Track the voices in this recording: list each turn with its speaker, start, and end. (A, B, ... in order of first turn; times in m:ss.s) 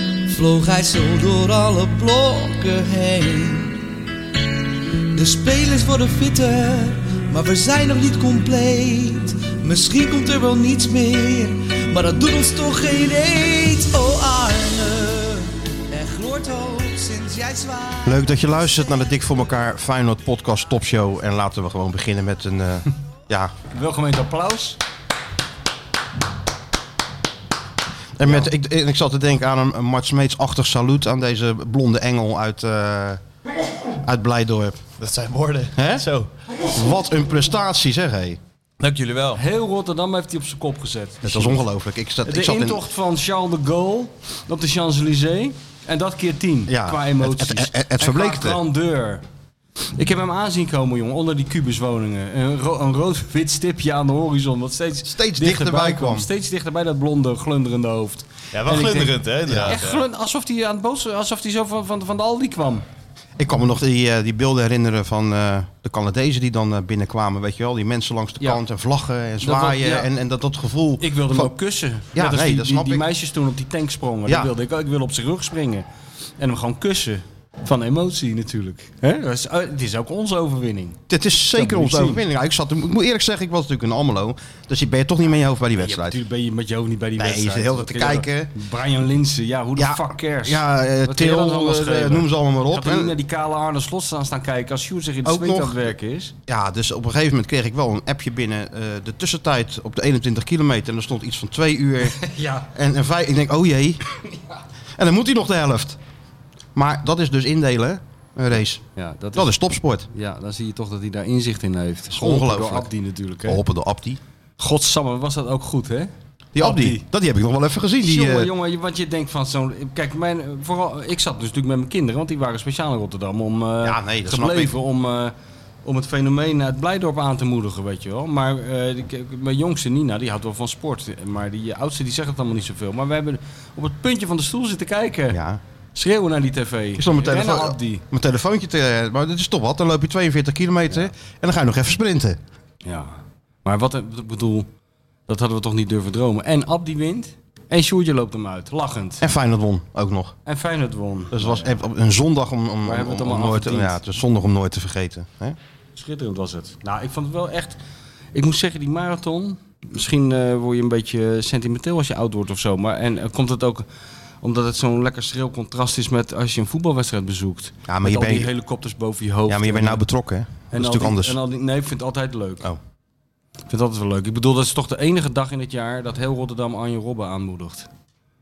0:00.3-0:03.8 A
0:05.1-0:18.5 A
0:18.0-0:23.5 B
0:23.7-0:24.8 C
0:28.2-0:33.2 B
0:34.0-0:34.8 B
0:35.0-0:36.3 D
0:35.8-0:36.0 B
0:36.6-0:38.4 B
0:38.8-0:39.4 D
0:39.4-0:41.6 C
0:41.2-0:42.8 B
0:42.2-0:49.2 C
0:46.7-0:48.6 B
0:50.0-1:02.8 C
0:55.0-0:56.3 B
0:58.5-1:00.0 D
0:59.5-0:59.8 B
1:03.4-1:11.5 B
1:09.4-1:10.1 C
1:11.0-1:15.8 C
1:12.1-1:13.1 B
1:14.3-1:14.5 B
1:16.4-1:21.0 C
1:21.1-1:26.2 B
1:21.5-1:22.2 C
1:25.8-1:36.3 C
1:27.2-1:28.5 B
1:29.8-1:33.2 B
1:35.2-1:35.9 B
1:36.5-1:44.0 B
1:42.2-1:42.7 C
1:45.0-1:46.0 B
1:46.8-1:48.8 B
1:49.0-1:49.5 C
1:49.3-1:50.1 B
1:50.1-1:53.6 C
1:52.1-1:52.9 B
1:53.4-1:54.2 B
1:54.6-1:57.0 C
1:56.5-1:58.5 B
1:58.0-2:15.4 C
2:03.8-2:04.7 B
2:15.3-2:15.6 B
2:16.0-2:18.0 C
2:17.0-2:22.4 B
2:22.8-2:24.7 C
2:25.3-2:29.3 C
2:29.2-2:30.4 B
2:30.5-2:31.8 C
2:31.3-2:35.6 B
2:32.8-2:34.0 C
2:36.0-2:37.8 C
2:38.3-2:43.9 C
2:44.4-2:50.0 C
2:47.9-2:48.5 B
2:49.5-2:51.4 B
2:50.7-2:52.7 C
2:53.7-2:57.9 C